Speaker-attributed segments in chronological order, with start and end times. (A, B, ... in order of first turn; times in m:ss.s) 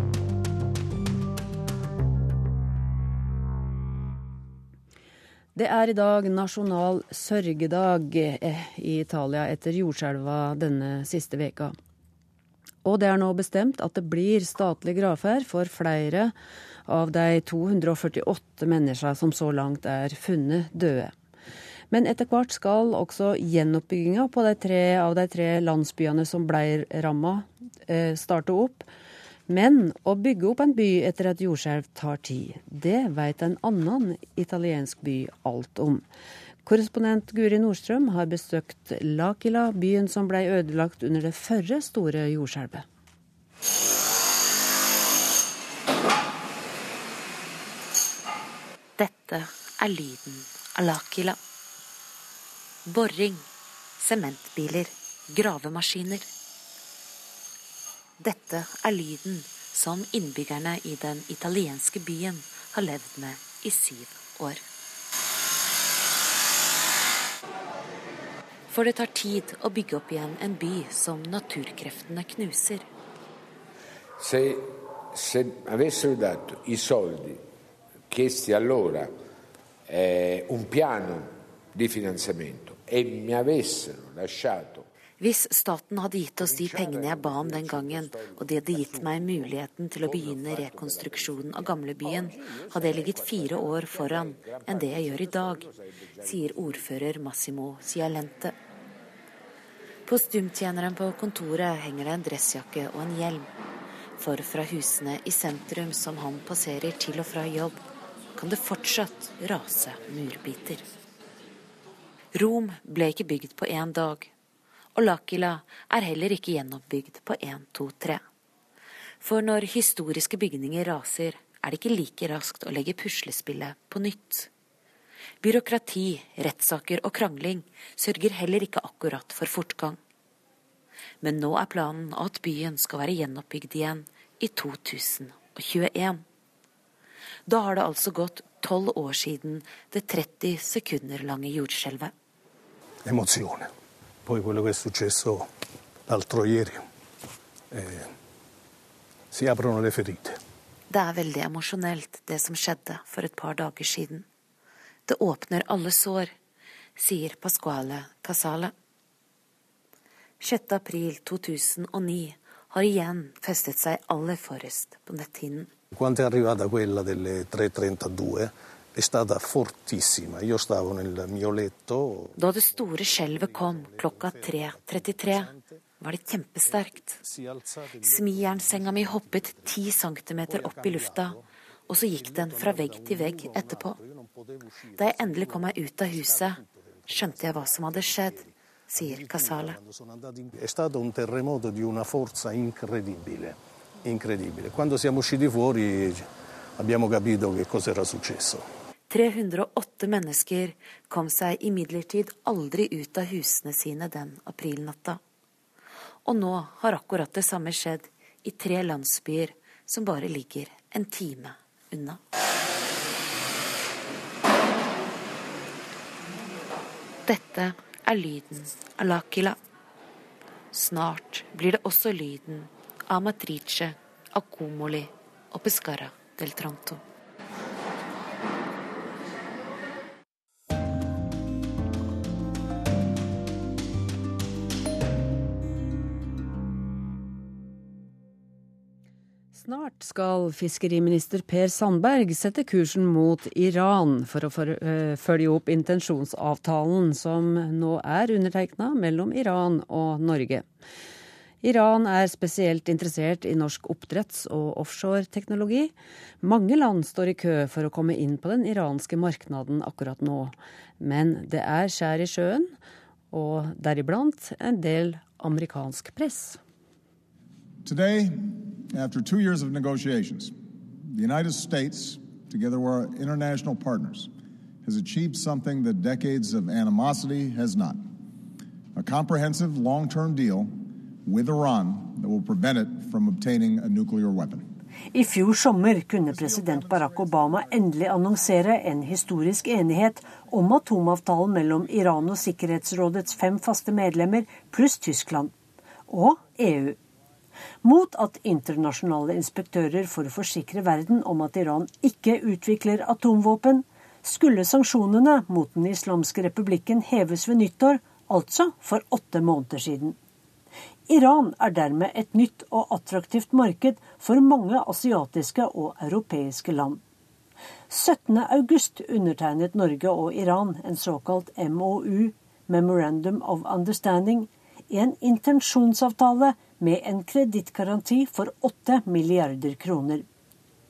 0:05.5-0:11.8 A
0:12.8-0:16.3 A
0:16.9-0:21.1 A
0:21.9-0:28.9 A
0:29.5-0:36.0 A
0:36.6-0:42.8 A
0:49.0-0:51.4 B
0:52.8-0:53.4 B
0:54.0-0:56.3 B
0:58.2-1:04.6 B
1:08.7-1:12.8 B
1:14.2-1:17.4 C
1:18.1-1:19.1 C
1:19.9-1:24.8 C
1:25.2-1:38.5 B
1:26.4-1:29.0 C
1:30.0-1:31.4 C
1:32.0-1:35.7 C
1:40.0-1:43.5 B
1:44.2-1:47.8 B
1:48.4-1:50.9 B
1:52.3-1:54.3 B
1:54.9-1:58.2 B
1:59.2-2:04.5 B
2:05.4-2:10.0 B
2:11.2-2:16.2 B
2:17.5-2:22.1 B
2:23.0-2:23.7 D
2:24.2-2:25.5 D
2:26.1-2:26.8 D
2:27.7-2:28.1 D
2:29.3-2:30.4 D
2:30.9-2:34.2 B
2:35.1-2:36.3 B
2:37.0-2:38.7 B
2:40.4-2:45.7 B
2:45.9-2:52.4 D
2:52.4-2:57.2 B
2:53.0-2:55.8 D
2:56.6-2:59.8 D
2:58.0-3:04.0 B
3:00.4-3:16.3 D
3:05.0-3:09.8 B
3:16.8-3:18.6 D
3:19.1-3:25.2 B
3:26.2-3:32.2 B
3:37.2-3:39.6 B
3:40.7-3:47.0 B
3:59.5-4:10.6 A
4:11.6-4:22.7 A
4:23.3-4:26.6 A
4:27.8-4:30.5 E
4:31.0-4:34.3 E
4:34.8-4:38.0 E
4:38.9-4:44.6 E
4:45.1-4:55.5 F
4:56.1-4:57.0 F
4:57.8-5:10.2 F
5:11.1-5:17.0 F
5:17.9-5:30.2 F